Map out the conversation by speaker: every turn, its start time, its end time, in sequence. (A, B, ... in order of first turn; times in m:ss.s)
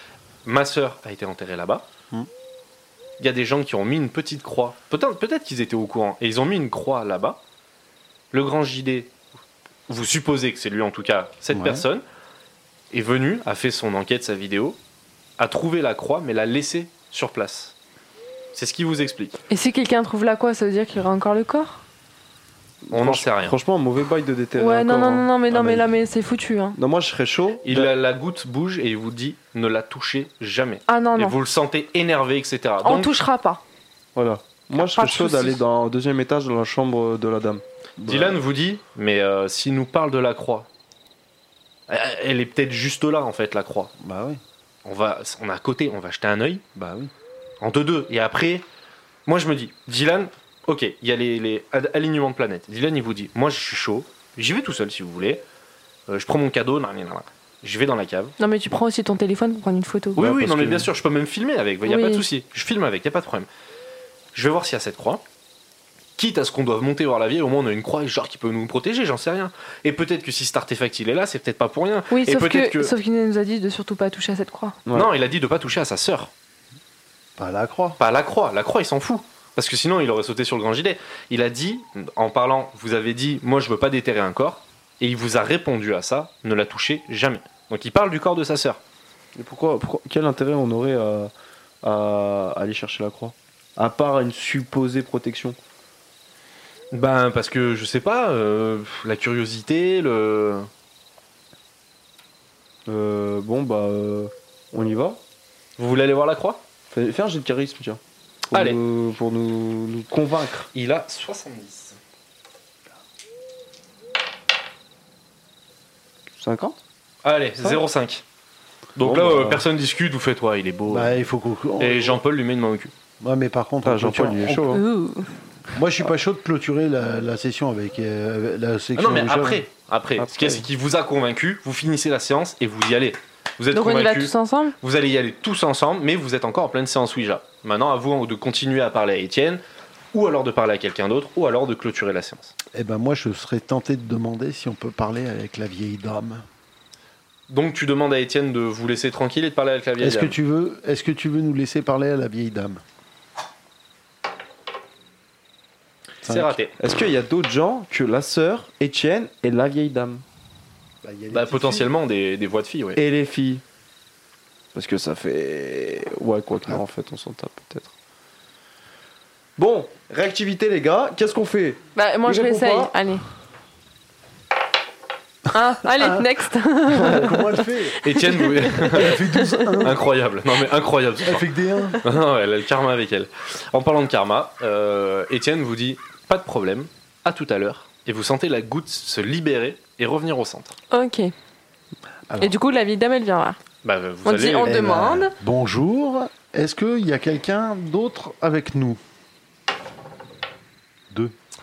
0:00.4-0:01.8 A
0:03.2-0:07.4 A
0:08.3-0:09.1 A
0:09.9-0:12.0 A
0:11.5-0:11.8 B
0:12.9-0:14.8 A
0:15.4-0:17.7 A
0:18.5-0:19.4 A
0:19.5-0:21.8 C
0:22.9-0:25.8 D
0:22.9-0:23.6 A
0:24.6-0:26.8 C
0:26.8-0:27.9 D
0:27.6-0:33.1 A
0:30.9-0:31.3 C
0:32.8-0:33.6 C
0:34.1-0:37.6 D
0:34.7-0:35.6 C
0:38.0-0:38.4 B
0:38.0-0:40.7 A
0:41.9-0:43.9 A
0:44.0-0:44.4 B
0:44.8-0:46.6 A
0:46.8-0:47.1 B
0:47.6-0:48.6 A
0:49.2-0:55.4 A
0:56.1-0:58.3 A
0:58.4-1:00.4 C
1:00.2-1:03.5 A
1:01.8-1:02.2 C
1:04.3-1:05.2 A
1:06.2-1:12.9 A
1:12.1-1:14.8 C
1:14.9-1:16.3 A
1:17.4-1:18.0 B
1:18.0-1:28.8 A
1:29.3-1:31.3 D
1:31.8-1:35.6 D
1:36.9-1:40.7 A
1:42.8-1:45.2 D
1:45.8-1:46.6 A
1:46.9-1:48.0 D
1:48.5-1:48.8 A
1:48.5-1:50.7 D
1:50.7-1:52.0 A
1:56.4-1:56.8 D
1:57.2-1:58.2 A
1:59.0-2:01.2 A
1:59.0-1:59.6 D
2:00.9-2:02.2 B
2:01.8-2:02.9 A
2:03.2-2:04.8 B
2:03.8-2:04.8 D
2:04.7-2:05.3 C
2:05.7-2:09.6 B
2:08.9-2:19.6 A
2:10.2-2:10.6 D
2:13.7-2:14.7 C
2:20.1-2:22.5 A
2:22.7-2:26.4 B
2:27.5-2:30.4 A
2:30.0-2:32.8 B
2:36.2-2:36.6 B
2:36.2-2:36.7 A
2:36.8-2:40.2 D
2:41.0-2:41.9 B
2:41.3-2:43.0 A
2:42.9-2:43.6 D
2:44.7-2:47.9 D
2:49.6-2:52.9 D
2:51.9-2:53.2 C
2:55.5-2:59.8 C
2:56.9-2:58.0 B
2:58.0-2:59.3 A
2:58.9-3:00.0 B
2:59.8-3:01.5 A
3:01.2-3:02.0 B
3:02.0-3:10.7 A
3:10.9-3:11.3 C
3:12.3-3:12.5 B
3:12.4-3:13.6 C
3:13.8-3:14.8 A
3:14.2-3:15.3 C
3:14.6-3:19.0 B